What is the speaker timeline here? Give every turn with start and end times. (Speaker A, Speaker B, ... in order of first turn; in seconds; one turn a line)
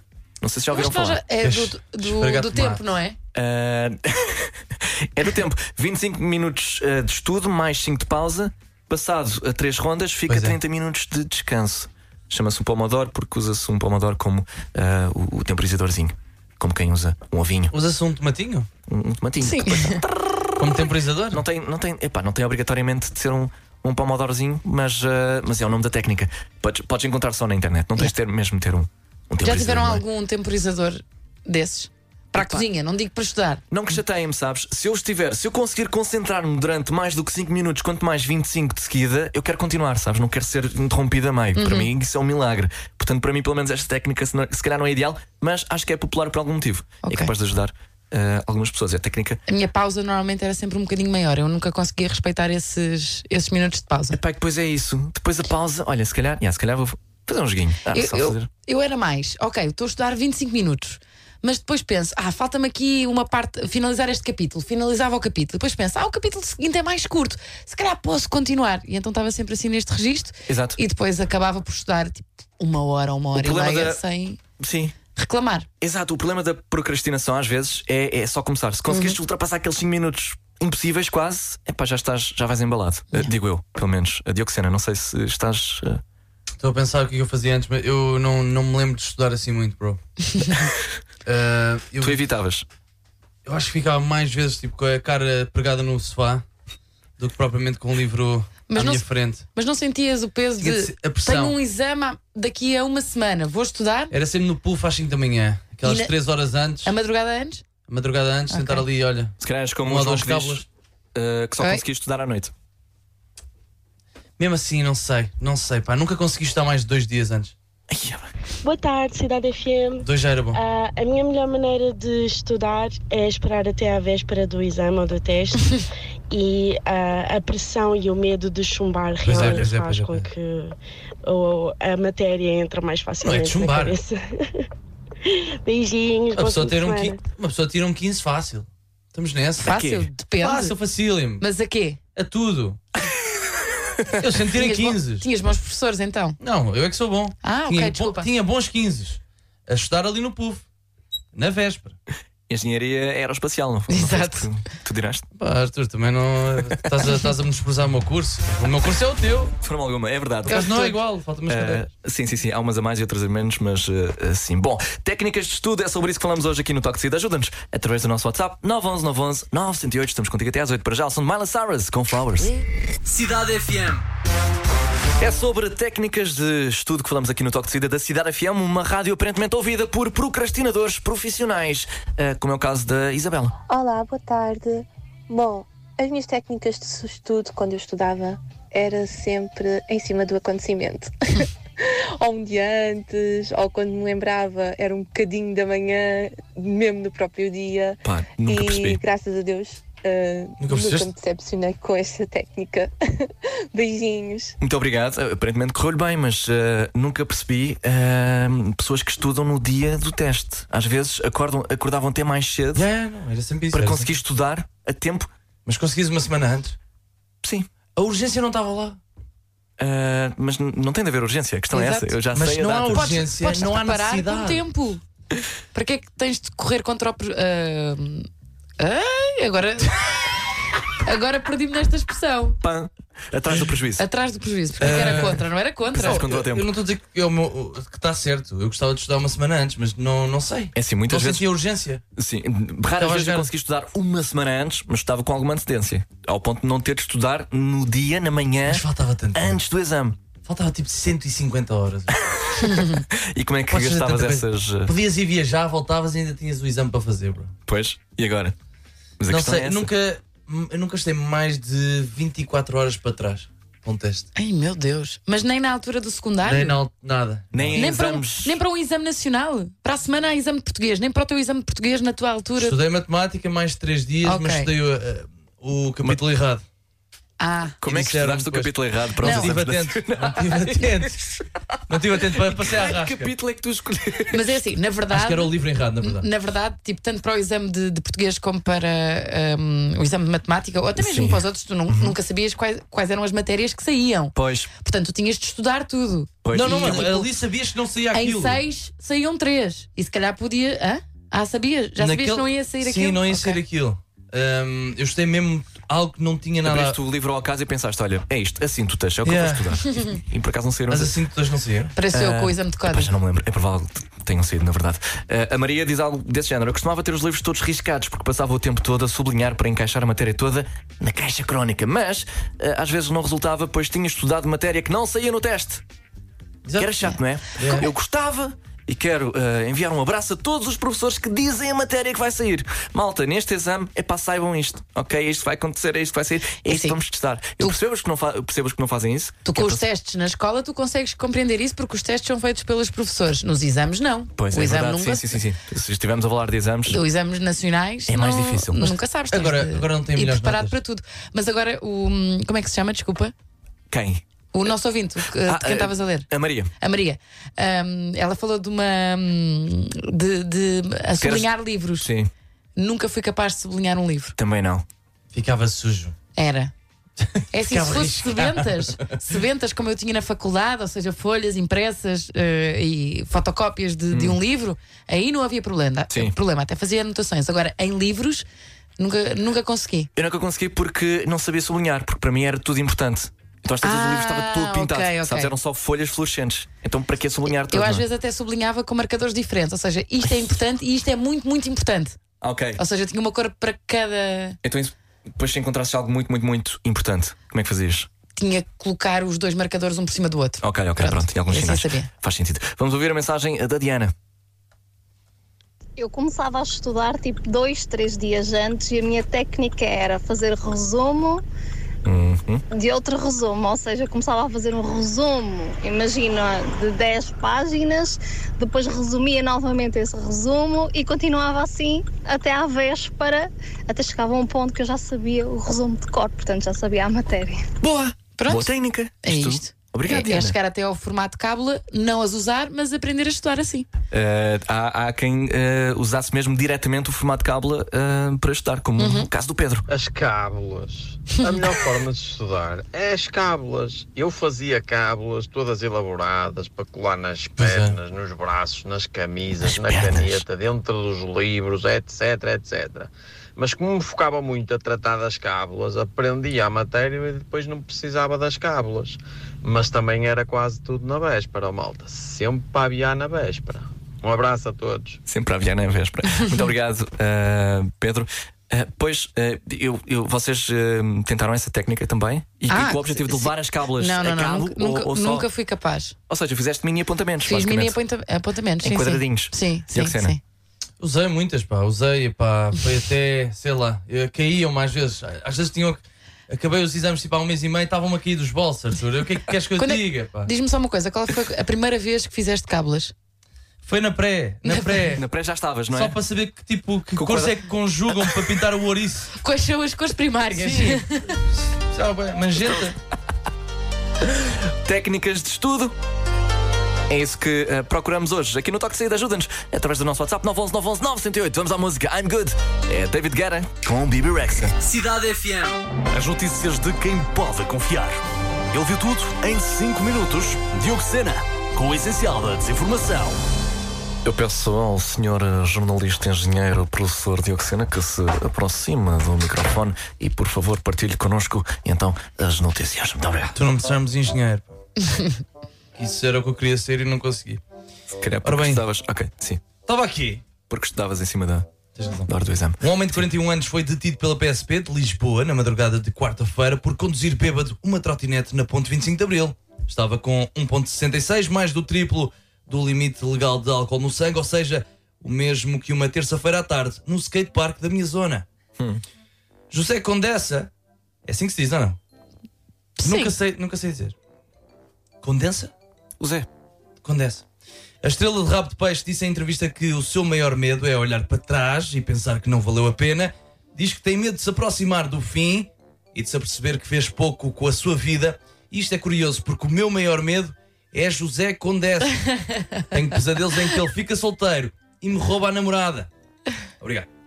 Speaker A: 0.4-1.2
Speaker B: 0.7-3.1
Speaker C: 1.4-2.8
Speaker A: 3.3-17.7
Speaker C: 10.3-10.6
Speaker C: 17.7-18.7
Speaker A: 18.9-20.5
Speaker B: 19.4-20.0
Speaker C: 20.6-21.4
Speaker A: 21.3-30.0
Speaker B: 29.4-33.6
Speaker A: 32.4-32.6
Speaker A: 33.7-49.4
Speaker B: 41.5-41.9
Speaker B: 47.0-47.3
Speaker B: 49.5-54.2
Speaker A: 54.1-58.5
Speaker B: 57.9-74.4
Speaker A: 70.5-70.8
Speaker A: 73.3-74.0
Speaker A: 74.6-74.9
Speaker B: 75.2-75.7
Speaker A: 75.8-86.0
Speaker B: 78.9-79.2
Speaker C: 86.6-90.0
Speaker B: 90.2-90.7
Speaker C: 91.2-92.2
Speaker A: 92.0-92.6
Speaker C: 93.4-96.4
Speaker C: 97.2-99.4
Speaker B: 98.7-104.1
Speaker C: 100.6-101.5
Speaker C: 104.1-106.9
Speaker B: 105.8-106.1
Speaker B: 106.8-107.6
Speaker C: 107.9-110.7
Speaker B: 108.5-108.8
Speaker A: 109.4-110.6
Speaker A: 111.1-112.5
Speaker C: 114.4-117.5
Speaker A: 117.9-118.3
Speaker D: 118.6-134.7
Speaker C: 120.0-120.6
Speaker C: 129.2-130.3
Speaker C: 133.2-133.9
Speaker D: 135.2-137.2
Speaker C: 136.3-139.8
Speaker B: 139.6-140.8
Speaker A: 139.7-140.0
Speaker C: 140.4-141.4
Speaker B: 141.4-142.0
Speaker C: 142.1-142.8
Speaker C: 144.2-145.2
Speaker B: 144.5-146.4
Speaker C: 146.4-150.6
Speaker B: 147.4-148.3
Speaker C: 151.3-151.9
Speaker A: 152.5-155.2
Speaker B: 153.9-154.5
Speaker C: 155.4-159.5
Speaker A: 159.6-160.9
Speaker C: 160.5-161.9
Speaker B: 160.5-160.9
Speaker A: 161.5-172.6
Speaker C: 173.1-173.6
Speaker A: 173.6-173.9
Speaker A: 175.2-183.6
Speaker E: 183.7-204.5
Speaker A: 198.0-199.0
Speaker C: 200.6-201.1
Speaker A: 204.6-212.8
Speaker C: 212.7-214.1
Speaker A: 213.7-215.3
Speaker C: 215.7-216.7
Speaker A: 217.4-217.7
Speaker C: 217.9-219.0
Speaker A: 219.8-223.1
Speaker B: 221.7-222.2
Speaker C: 222.3-224.6
Speaker B: 222.9-225.0
Speaker B: 225.7-228.3
Speaker B: 228.8-230.1
Speaker B: 231.0-232.6
Speaker A: 232.6-234.0
Speaker B: 234.0-236.2
Speaker C: 234.8-242.0
Speaker A: 234.9-235.2
Speaker A: 236.0-236.7
Speaker A: 240.8-241.4
Speaker A: 242.2-250.2
Speaker C: 243.0-243.5
Speaker C: 248.7-249.6
Speaker C: 250.4-252.2
Speaker A: 252.2-254.9
Speaker C: 253.7-257.5
Speaker A: 257.7-258.5
Speaker A: 259.2-259.9
Speaker C: 259.3-264.3
Speaker B: 264.4-266.8
Speaker C: 266.4-267.9
Speaker A: 267.5-268.6
Speaker B: 267.7-272.8
Speaker C: 272.6-276.6
Speaker B: 274.2-274.7
Speaker B: 277.4-277.8
Speaker A: 277.8-281.4
Speaker C: 277.8-281.1
Speaker B: 279.2-279.5
Speaker C: 281.9-283.3
Speaker A: 282.1-284.5
Speaker B: 284.3-297.3
Speaker C: 285.1-286.2
Speaker A: 290.9-292.1
Speaker A: 294.3-294.7
Speaker A: 296.4-297.1
Speaker C: 296.5-298.6
Speaker B: 298.1-303.6
Speaker C: 302.0-307.0
Speaker A: 306.6-311.1
Speaker C: 309.2-309.8
Speaker C: 310.9-311.9
Speaker B: 311.9-313.1
Speaker A: 312.1-325.8
Speaker C: 326.6-326.9
Speaker A: 326.8-339.8
Speaker C: 327.6-327.9
Speaker B: 336.7-337.0
Speaker B: 339.4-345.3
Speaker A: 344.4-347.0
Speaker B: 346.9-353.3
Speaker A: 348.1-348.9
Speaker C: 349.3-350.8
Speaker A: 353.9-354.2
Speaker B: 354.5-356.3
Speaker A: 355.4-356.7
Speaker B: 356.8-362.1
Speaker A: 361.2-362.3
Speaker B: 362.8-364.3
Speaker A: 364.4-364.8
Speaker C: 365.3-366.1
Speaker B: 366.3-366.7
Speaker C: 367.2-369.2
Speaker B: 367.5-378.4
Speaker A: 374.1-374.4
Speaker B: 379.0-380.1
Speaker A: 380.1-388.0
Speaker B: 383.8-385.5
Speaker B: 387.7-392.2
Speaker A: 392.4-392.8
Speaker B: 392.8-394.6
Speaker A: 394.6-398.1
Speaker B: 398.4-402.1
Speaker A: 400.6-404.1
Speaker F: 406.0-411.4
Speaker A: 412.0-412.6
Speaker F: 412.7-427.6
Speaker A: 427.8-430.5
Speaker B: 428.4-428.7
Speaker B: 429.2-433.9
Speaker A: 434.1-439.9
Speaker B: 439.0-439.3
Speaker G: 439.9-465.2
Speaker C: 447.6-448.0
Speaker A: 449.6-450.4
Speaker A: 465.3-475.4
Speaker B: 472.7-476.1
Speaker A: 476.3-478.0
Speaker B: 477.4-480.4
Speaker A: 478.8-480.4
Speaker C: 481.0-490.5
Speaker B: 489.8-493.1
Speaker C: 493.8-495.2
Speaker B: 494.6-495.2
Speaker A: 495.2-496.2
Speaker C: 495.9-499.3
Speaker A: 497.1-497.5
Speaker B: 499.4-501.3
Speaker C: 500.5-502.9
Speaker A: 504.2-505.9
Speaker A: 507.1-514.8
Speaker C: 514.8-517.1
Speaker H: 516.1-518.2
Speaker H: 518.7-523.4
Speaker C: 520.7-523.3
Speaker A: 524.2-533.5
Speaker C: 533.5-534.7
Speaker C: 535.9-537.6
Speaker A: 538.2-539.6
Speaker C: 538.4-538.8
Speaker C: 539.9-540.4
Speaker A: 540.7-541.7
Speaker C: 541.9-558.4
Speaker A: 542.3-543.2
Speaker C: 559.7-560.7
Speaker C: 561.2-562.0
Speaker B: 563.0-563.3
Speaker C: 563.0-564.1
Speaker C: 565.2-565.7
Speaker A: 566.2-566.5
Speaker C: 567.0-567.4
Speaker C: 568.0-582.3
Speaker B: 582.2-582.8
Speaker C: 582.9-586.1
Speaker C: 586.8-587.1